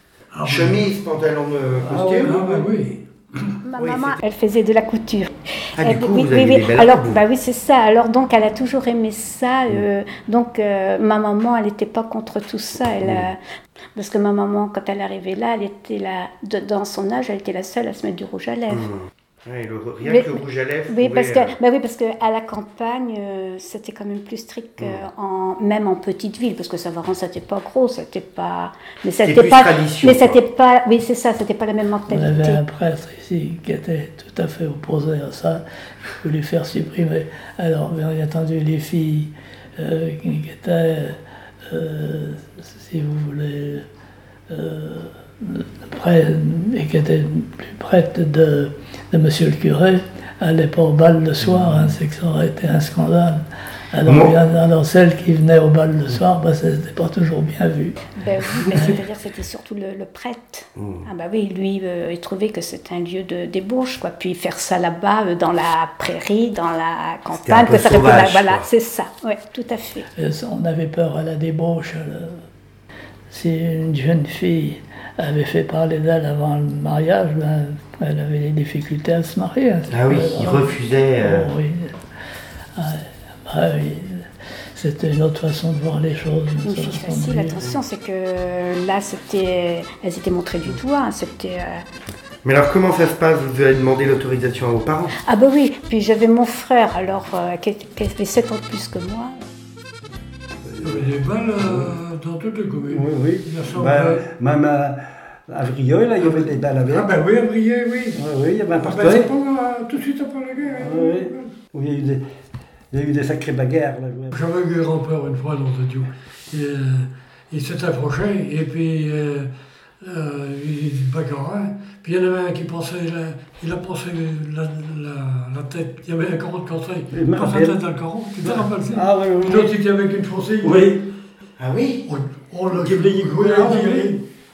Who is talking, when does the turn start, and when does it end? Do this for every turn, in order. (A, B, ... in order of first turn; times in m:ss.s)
0:00.3-0:00.8 A
0:00.4-0:02.4 B
0:01.7-0:02.7 C
0:02.3-0:03.5 A
0:03.6-0:13.4 D
0:03.8-0:04.2 B
0:05.8-0:07.2 B
0:13.0-0:13.3 B
0:13.9-0:18.8 D
0:18.7-0:21.5 B
0:20.0-0:32.6 D
0:29.2-0:30.4 B
0:32.1-0:35.6 E
0:36.2-0:41.2 E
0:41.7-0:43.8 E
0:44.5-0:53.4 E
0:53.9-0:58.0 E
0:54.0-0:54.4 B
0:58.1-1:10.1 D
1:00.8-1:01.0 B
1:07.3-1:08.7 B
1:10.2-1:12.4 E
1:13.3-1:21.9 E
1:19.9-1:21.5 B
1:22.8-1:27.6 E
1:26.6-1:31.8 D
1:32.4-1:35.1 B
1:35.2-1:39.3 D
1:40.6-1:41.9 C
1:40.8-1:44.2 A
1:42.9-1:47.1 C
1:46.2-1:48.2 A
1:48.1-1:49.3 C
1:48.8-1:51.5 A
1:50.8-1:52.2 C
1:52.9-1:54.4 C
1:54.3-2:10.8 A
2:07.1-2:07.8 C
2:08.4-2:09.7 C
2:10.6-2:11.0 C
2:11.6-2:12.0 B
2:12.1-2:14.2 A
2:12.7-2:14.1 C